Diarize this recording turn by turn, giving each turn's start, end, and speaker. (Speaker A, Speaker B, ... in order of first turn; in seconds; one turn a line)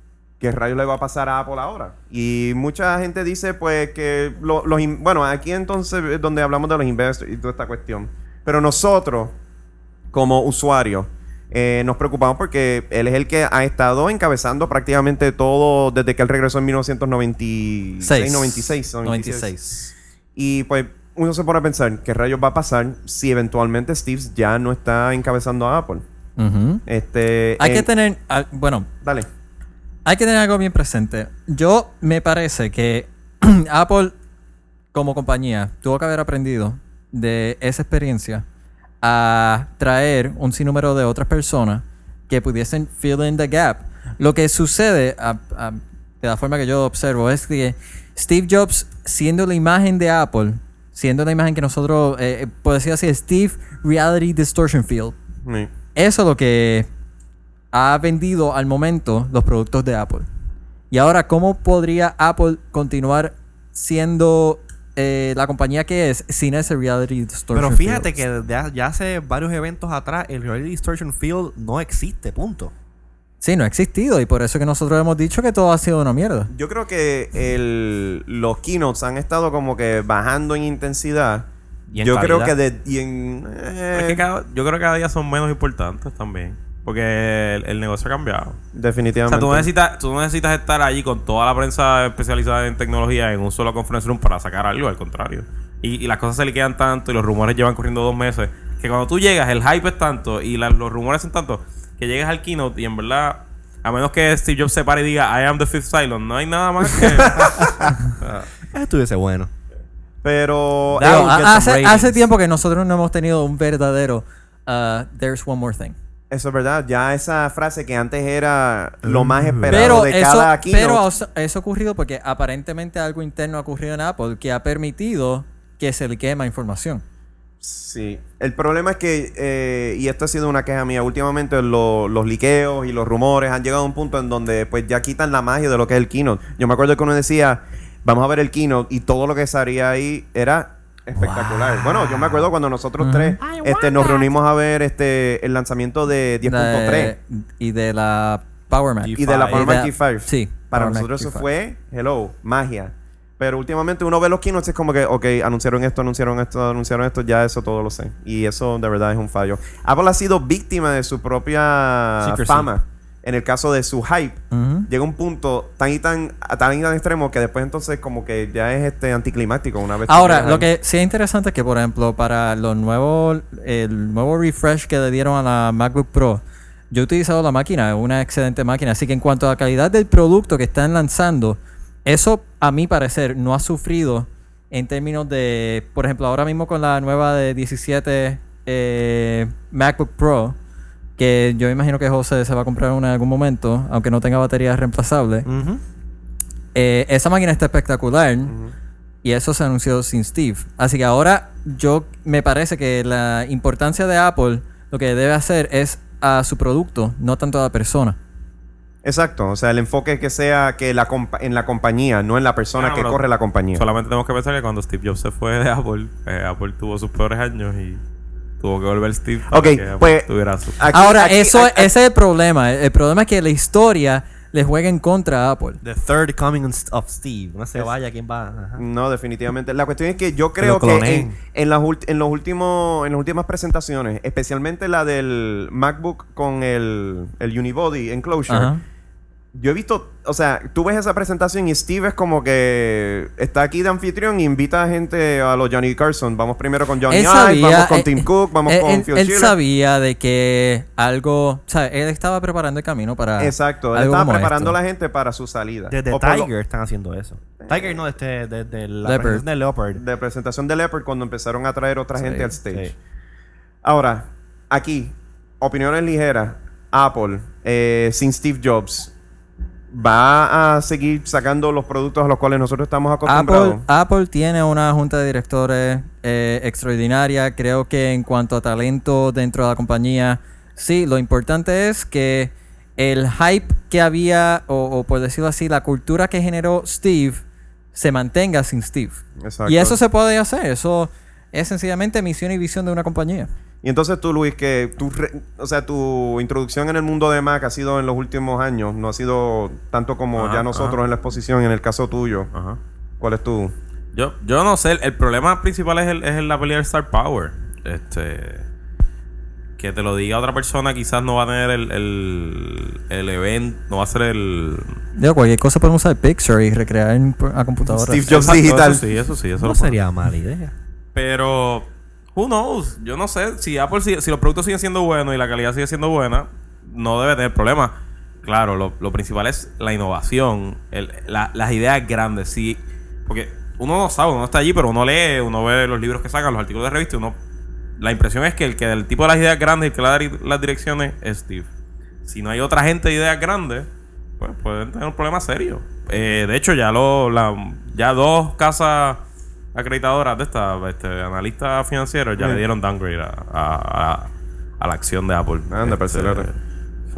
Speaker A: 0.4-9.3
Speaker A: 10.1-19.5
Speaker B: 18.0-19.9
Speaker A: 20.4-26.0
Speaker B: 26.4-26.8
Speaker A: 26.9-27.9
Speaker B: 27.6-28.9
Speaker A: 29.0-29.3
Speaker B: 30.1-34.1
Speaker B: 34.9-38.5
Speaker B: 39.0-55.2
Speaker A: 55.4-55.7
Speaker B: 56.0-56.9
Speaker B: 57.7-60.3
Speaker B: 60.9-68.2
Speaker C: 67.5-72.7
Speaker B: 73.4-76.5
Speaker A: 76.5-84.2
Speaker C: 81.9-82.5
Speaker D: 83.9-88.6
Speaker A: 88.7-89.7
Speaker D: 89.3-108.5
Speaker A: 107.0-107.9
Speaker C: 108.7-109.5
Speaker A: 110.2-112.0
Speaker C: 111.0-112.2
Speaker B: 111.0-116.0
Speaker A: 116.3-121.0
Speaker C: 119.0-120.0
Speaker B: 119.7-127.0
Speaker A: 127.6-147.2
Speaker C: 141.2-142.3
Speaker B: 143.0-143.4
Speaker B: 146.4-151.5
Speaker C: 149.0-149.7
Speaker A: 149.2-170.7
Speaker C: 162.2-162.7
Speaker B: 164.5-164.9
Speaker B: 170.1-190.6
Speaker B: 191.2-195.5
Speaker C: 195.5-195.8
Speaker B: 196.8-198.6
Speaker A: 198.5-198.7
Speaker B: 199.2-208.2
Speaker A: 209.0-213.8
Speaker D: 212.8-213.2
Speaker D: 213.7-218.0
Speaker D: 218.6-220.8
Speaker A: 219.5-221.9
Speaker B: 220.9-225.8
Speaker C: 225.8-228.8
Speaker A: 228.8-238.7
Speaker C: 230.6-231.3
Speaker B: 238.5-238.8
Speaker A: 239.5-249.6
Speaker B: 247.1-254.8
Speaker A: 253.4-256.5
Speaker C: 255.9-260.0
Speaker A: 257.6-258.0
Speaker B: 259.0-259.4
Speaker A: 259.9-262.9
Speaker B: 262.2-262.5
Speaker A: 263.8-269.1
Speaker A: 269.9-273.8
Speaker B: 273.3-287.4
Speaker B: 287.9-293.5
Speaker A: 289.4-290.0
Speaker A: 293.8-302.5
Speaker D: 300.4-301.0
Speaker D: 302.5-302.8
Speaker A: 303.2-303.7
Speaker D: 304.1-308.6
Speaker D: 309.8-315.0
Speaker B: 315.2-318.5
Speaker A: 317.9-319.0
Speaker D: 318.3-320.0
Speaker C: 319.6-320.7
Speaker D: 321.1-337.4
Speaker D: 338.0-341.7
Speaker D: 342.2-343.9
Speaker D: 344.4-349.2
Speaker D: 349.7-356.6
Speaker A: 352.4-352.6
Speaker A: 355.7-356.5